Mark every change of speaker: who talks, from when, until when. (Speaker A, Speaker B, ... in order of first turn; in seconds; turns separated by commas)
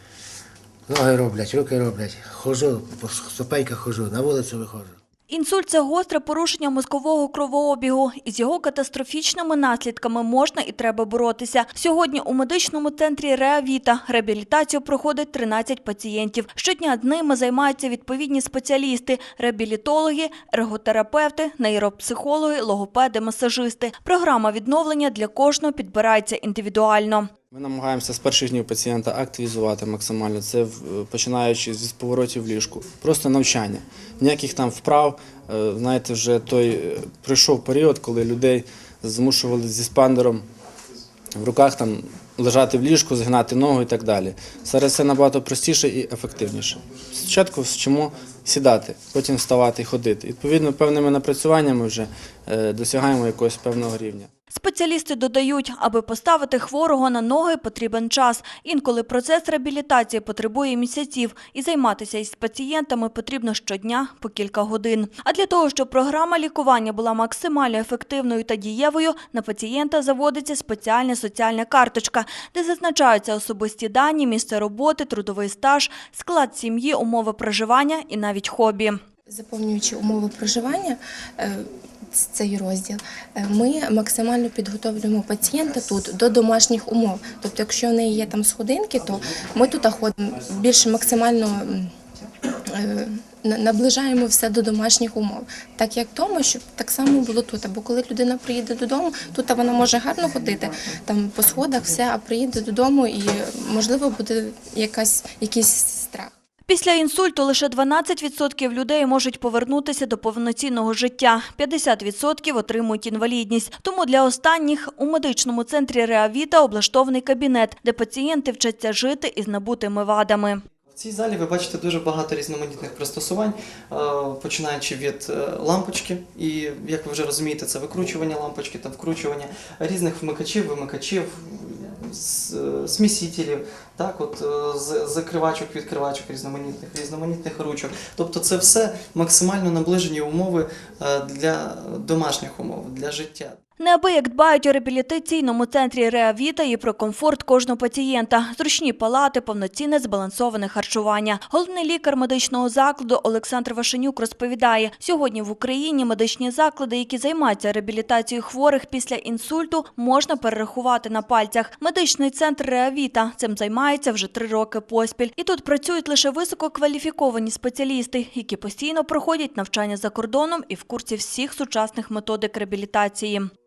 Speaker A: 0.9-4.9, Speaker B: 5.3-27.3, Speaker C: 27.5-40.5, Speaker C: 41.4-54.3, Speaker B: 54.5-79.0, Speaker D: 79.3-91.9, Speaker D: 92.7-106.3, Speaker B: 106.7-120.6, Speaker E: 120.9-143.6, Speaker B: 143.8-173.5